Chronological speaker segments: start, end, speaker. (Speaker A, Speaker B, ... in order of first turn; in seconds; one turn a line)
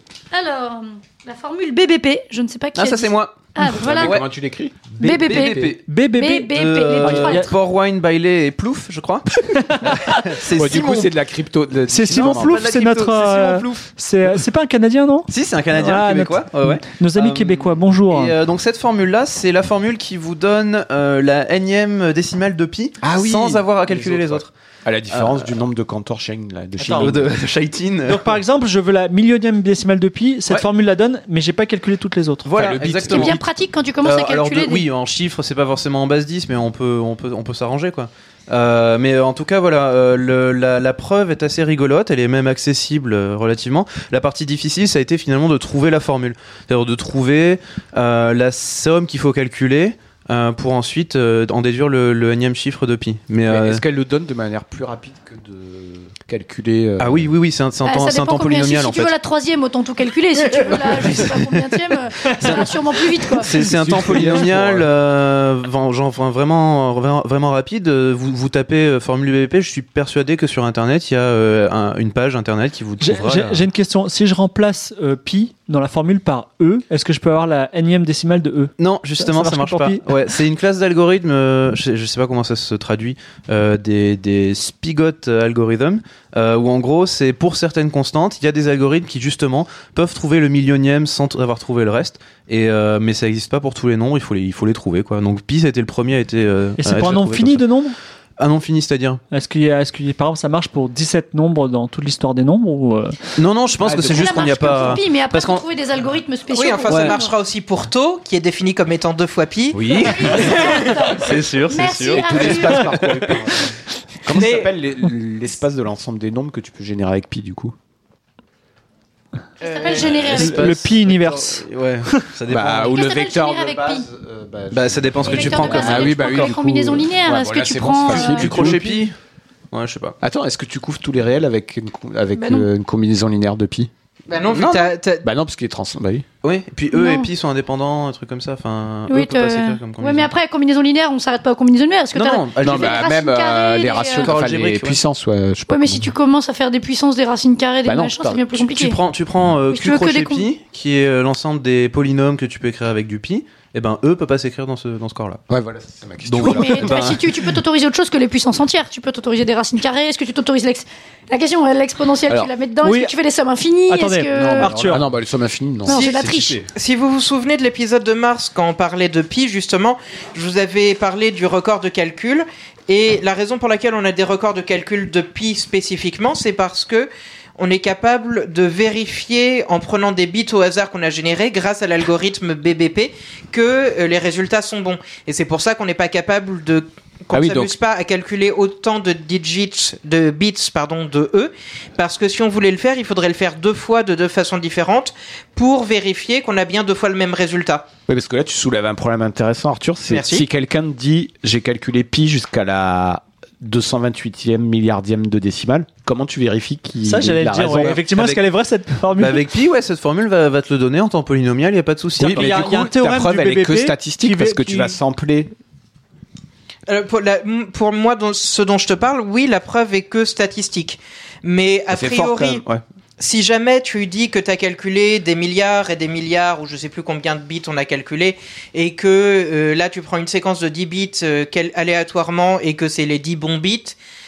Speaker A: 0.3-4.2
Speaker B: 2.8-4.3
Speaker C: 3.8-5.7
Speaker B: 5.0-5.9
Speaker A: 5.0-7.5
Speaker D: 5.9-7.5
Speaker B: 6.5-11.1
Speaker D: 9.5-10.2
Speaker C: 10.4-12.6
Speaker D: 11.9-18.4
Speaker B: 12.1-13.9
Speaker B: 15.3-24.5
Speaker C: 23.0-27.4
Speaker B: 25.1-25.5
Speaker D: 26.8-27.2
Speaker B: 26.9-28.3
Speaker D: 28.1-32.5
Speaker B: 32.5-33.4
Speaker C: 32.5-33.4
Speaker A: 33.0-34.9
Speaker B: 34.0-53.8
Speaker C: 53.5-57.3
Speaker B: 57.0-59.1
Speaker A: 57.9-63.5
Speaker B: 60.9-61.6
Speaker B: 62.4-73.7
Speaker C: 63.6-64.9
Speaker D: 73.0-80.1
Speaker B: 78.8-97.7
Speaker D: 96.8-98.0
Speaker B: 98.4-99.2
Speaker D: 99.3-103.2
Speaker B: 103.4-105.6
Speaker C: 103.8-105.0
Speaker A: 104.0-107.3
Speaker E: 106.5-111.0
Speaker B: 106.9-107.2
Speaker B: 109.7-113.4
Speaker A: 110.0-113.0
Speaker C: 112.0-117.8
Speaker E: 114.4-114.7
Speaker A: 119.6-120.8
Speaker E: 119.6-120.2
Speaker B: 120.0-123.0
Speaker D: 120.3-122.2
Speaker C: 122.5-129.0
Speaker A: 122.8-124.1
Speaker B: 124.7-126.5
Speaker A: 125.2-128.8
Speaker B: 128.1-129.2
Speaker B: 129.7-130.2
Speaker C: 130.2-133.9
Speaker A: 132.3-132.7
Speaker E: 134.3-135.2
Speaker B: 134.5-134.9
Speaker C: 135.2-136.3
Speaker B: 136.4-140.3
Speaker A: 136.9-137.3
Speaker A: 139.1-144.3
Speaker B: 142.1-143.0
Speaker C: 142.6-146.1
Speaker B: 144.2-145.0
Speaker A: 145.7-149.0
Speaker C: 147.8-148.7
Speaker B: 148.7-155.4
Speaker A: 149.7-150.5
Speaker C: 155.5-157.2
Speaker B: 156.2-157.3
Speaker A: 156.4-164.7
Speaker D: 162.8-163.1
Speaker D: 163.9-165.0
Speaker C: 164.3-166.0
Speaker A: 165.9-166.6
Speaker E: 165.9-197.9
Speaker B: 166.1-166.7
Speaker C: 187.3-187.8
Speaker C: 198.1-208.0
Speaker E: 200.1-200.4
Speaker D: 207.0-209.5
Speaker B: 207.7-208.4
Speaker B: 209.2-212.7
Speaker D: 212.2-215.0
Speaker C: 212.2-215.5
Speaker E: 216.9-222.6
Speaker C: 221.9-222.8
Speaker E: 223.2-234.0